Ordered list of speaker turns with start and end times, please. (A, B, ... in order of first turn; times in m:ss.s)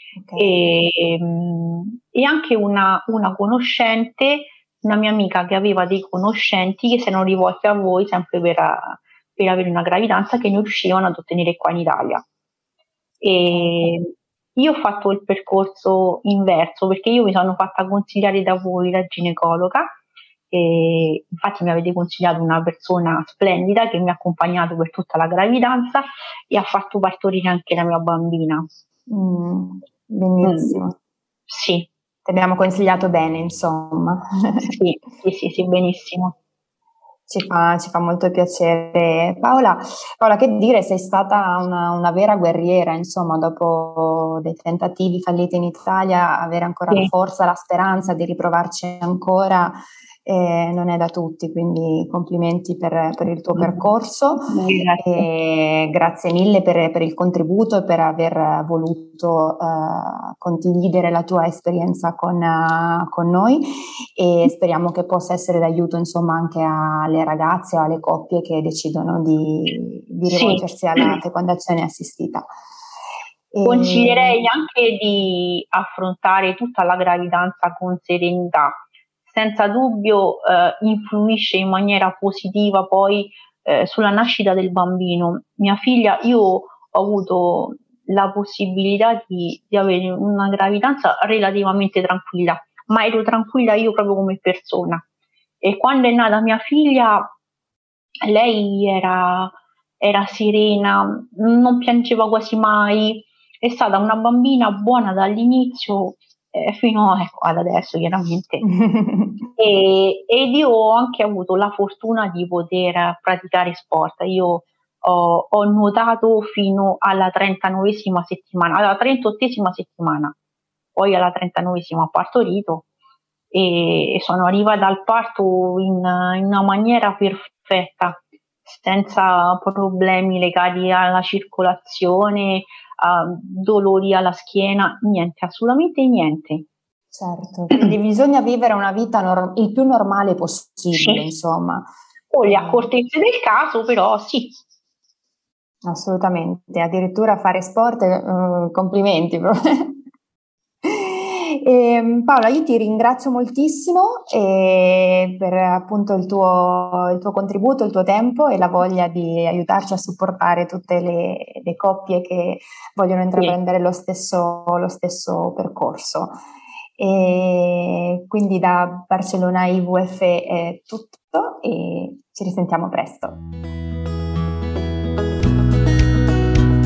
0:00.1-0:00.7 A
0:00.4-0:12.2 B
0:13.2-0:19.9 B
0:13.5-0:13.9 A
0:20.5-0:28.6 B
0:29.1-0:31.0 A
0:30.4-0:30.8 B
0:31.5-0:31.9 B
0:32.2-0:34.7 A
0:34.6-0:36.3 B
0:37.3-1:12.5 A
0:53.5-0:53.8 B
0:54.5-0:55.3 B
1:10.3-1:11.2 B
1:13.5-1:14.4 A
1:13.6-1:35.0 B
1:35.6-1:37.3 B
1:38.2-1:48.6 B
1:48.6-1:49.5 A
1:49.6-2:00.3 B
2:00.9-2:02.9 B
2:03.5-2:16.6 B
2:17.1-2:21.9 A
2:20.9-2:21.3 B
2:22.3-2:24.6 B
2:22.4-2:22.9 A
2:25.8-2:30.0 A
2:30.8-2:46.3 A
2:47.0-2:53.4 A